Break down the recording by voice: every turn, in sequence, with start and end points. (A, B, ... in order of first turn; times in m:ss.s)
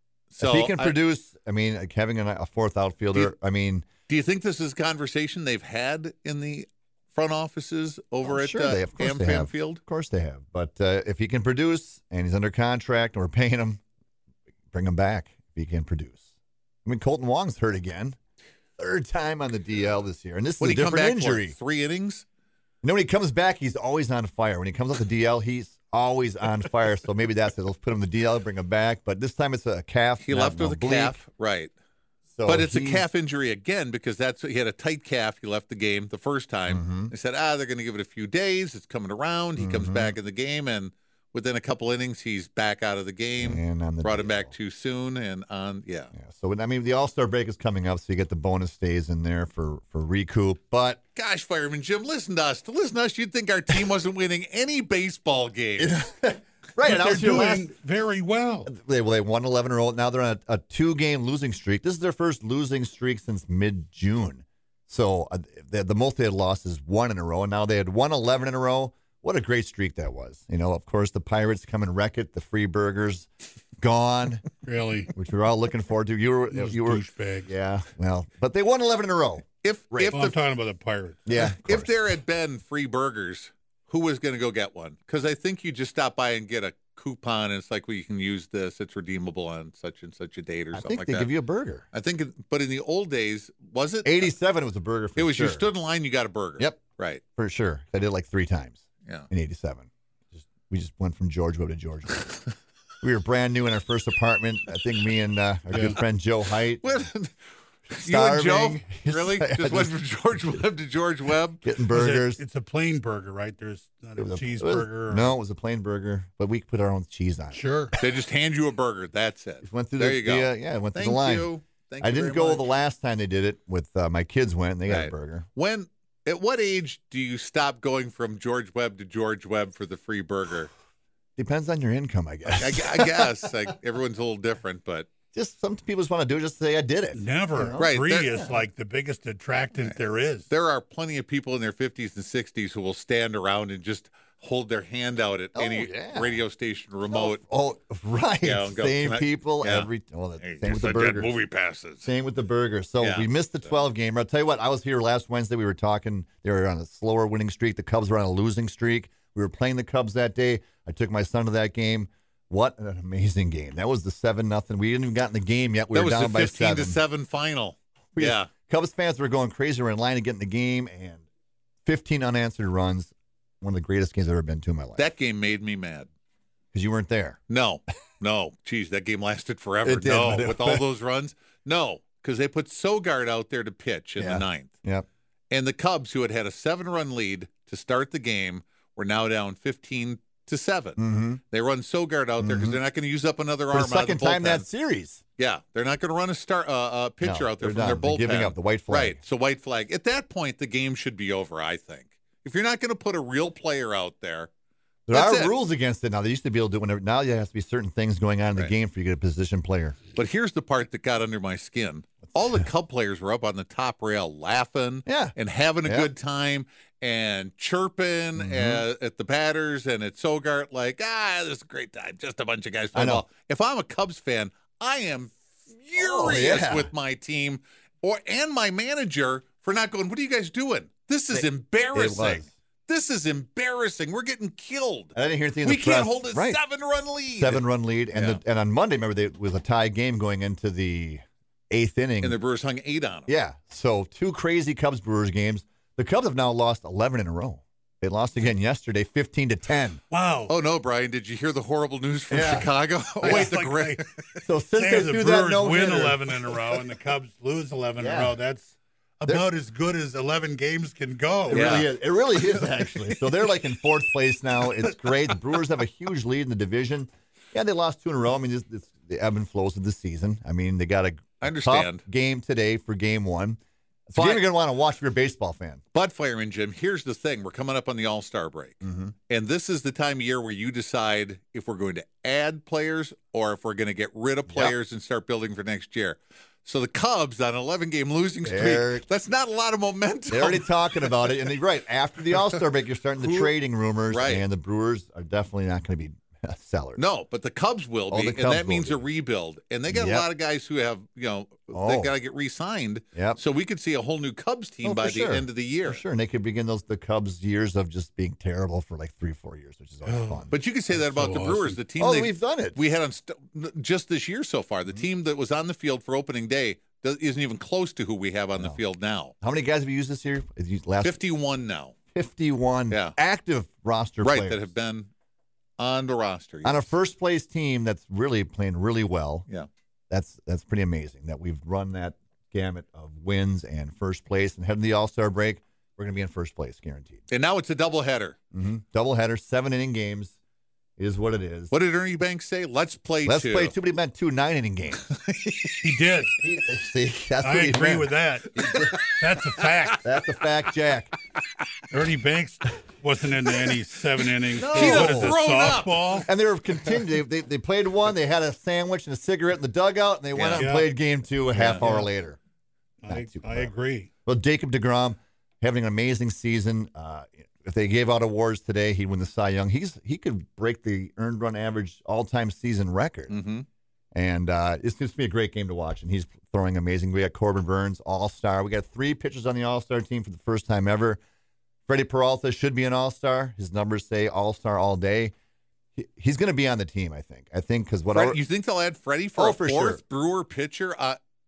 0:00.3-0:01.0 A
0:00.4-0:03.8 B
0:04.1-0:09.8 A
0:08.2-0:13.8 B
0:14.7-0:16.3 B
0:16.8-0:18.2 B
0:18.8-0:21.5 B
0:20.6-0:22.2 A
0:22.8-0:31.2 B
0:30.2-0:31.7 A
0:32.3-0:33.0 B
0:32.4-0:46.1 A
0:36.7-0:37.1 B
0:39.6-0:40.2 B
0:43.4-0:44.5 B
0:46.1-0:51.0 B
0:51.1-0:56.0 A
0:55.8-0:57.7 B
0:56.8-0:58.7 C
0:58.6-1:13.3 B
1:13.8-1:14.4 B
1:14.6-1:15.1 C
1:15.1-1:20.2 B
1:16.5-1:17.5 C
1:19.6-1:20.4 A
1:20.1-1:21.2 C
1:21.2-1:22.0 B
1:21.3-1:31.3 A
1:30.7-1:31.8 B
1:31.9-1:34.3 A
1:34.0-1:35.7 B
1:35.2-1:37.2 A
1:37.4-1:42.3 B
1:43.0-1:47.0 B
1:45.7-1:46.0 C
1:46.8-1:47.3 A
1:47.9-1:49.9 B
1:47.9-1:51.6 A
1:51.6-1:52.4 B
1:51.9-1:55.3 C
1:54.2-1:58.1 B
1:57.5-1:57.9 C
1:58.0-2:02.7 A
1:59.6-2:05.5 B
2:04.9-2:10.7 A
2:11.4-2:13.3 B
2:12.6-2:15.1 A
2:15.3-2:18.6 B
2:17.1-2:20.5 C
2:17.8-2:18.4 A
2:20.5-2:27.4 A
2:25.5-2:26.4 B
2:27.1-2:31.4 B
2:28.4-2:32.1 A
2:32.0-2:47.0 B
2:33.0-2:33.3 A
2:45.9-2:48.5 A
2:48.1-2:51.2 B
2:51.8-2:55.1 B
2:55.0-2:56.1 A
2:56.7-2:57.4 B
2:57.5-3:04.7 A
2:59.8-3:00.8 B
3:04.2-3:05.0 B
3:05.5-3:11.0 A
3:11.0-3:11.4 B
3:11.5-3:14.7 A
3:12.4-3:12.8 B
3:13.7-3:15.2 B
3:15.4-3:24.5 A
3:17.2-3:19.2 B
3:25.1-3:30.0 B
3:25.1-3:25.5 A
3:30.1-3:58.4 A
3:35.0-3:36.1 B
3:38.4-3:38.8 B
3:42.9-3:43.2 B
3:45.9-3:46.9 B
3:51.3-3:52.5 B
3:55.1-3:56.6 B
3:57.3-4:02.4 B
4:02.2-4:03.3 A
4:03.3-4:10.0 B
4:10.1-4:10.5 C
4:10.5-4:14.4 A
4:12.3-4:12.7 B
4:13.2-4:14.0 C
4:13.2-4:13.5 B
4:14.4-4:16.3 B
4:14.7-4:21.8 C
4:18.0-4:18.4 B
4:21.5-4:35.8 B
4:21.5-4:23.4 A
4:31.4-4:32.0 A
4:34.1-4:34.4 A
4:35.9-4:51.5 A
4:38.8-4:39.1 B
4:44.5-4:44.7 B
4:48.4-4:49.0 B
4:50.3-4:57.0 B
4:53.2-4:53.5 A
4:54.1-4:54.4 A
4:57.0-5:06.0 A
4:58.1-4:59.0 B
4:59.9-5:00.3 B
5:01.7-5:02.1 B
5:03.1-5:03.4 B
5:04.8-5:10.5 B
5:10.0-5:11.8 C
5:10.5-5:19.3 A
5:12.0-5:12.8 B
5:19.4-5:21.2 B
5:21.0-5:21.9 A
5:22.1-5:24.7 B
5:24.2-5:25.1 A
5:25.8-5:26.9 A
5:26.6-5:29.5 B
5:30.1-5:37.2 B
5:37.3-5:38.4 A
5:38.5-5:40.4 B
5:41.0-5:41.7 B
5:41.7-5:43.8 A
5:43.2-5:45.1 B
5:45.1-5:45.9 A
5:45.8-5:46.4 C
5:46.4-5:49.0 B
5:47.4-5:50.0 C
5:48.6-5:49.8 A
5:50.0-5:51.1 B
5:51.9-5:56.3 C
5:54.5-5:55.4 B
5:54.5-5:56.3 A
5:56.2-6:02.4 B
6:00.3-6:00.7 A
6:00.5-6:00.9 C
6:01.6-6:01.8 A
6:01.7-6:02.1 C
6:03.0-6:04.1 C
6:03.1-6:03.7 B
6:04.2-6:13.4 B
6:13.3-6:13.6 A
6:14.1-6:21.2 B
6:21.9-6:25.3 B
6:26.0-6:28.4 B
6:28.1-6:31.2 A
6:29.4-6:30.0 B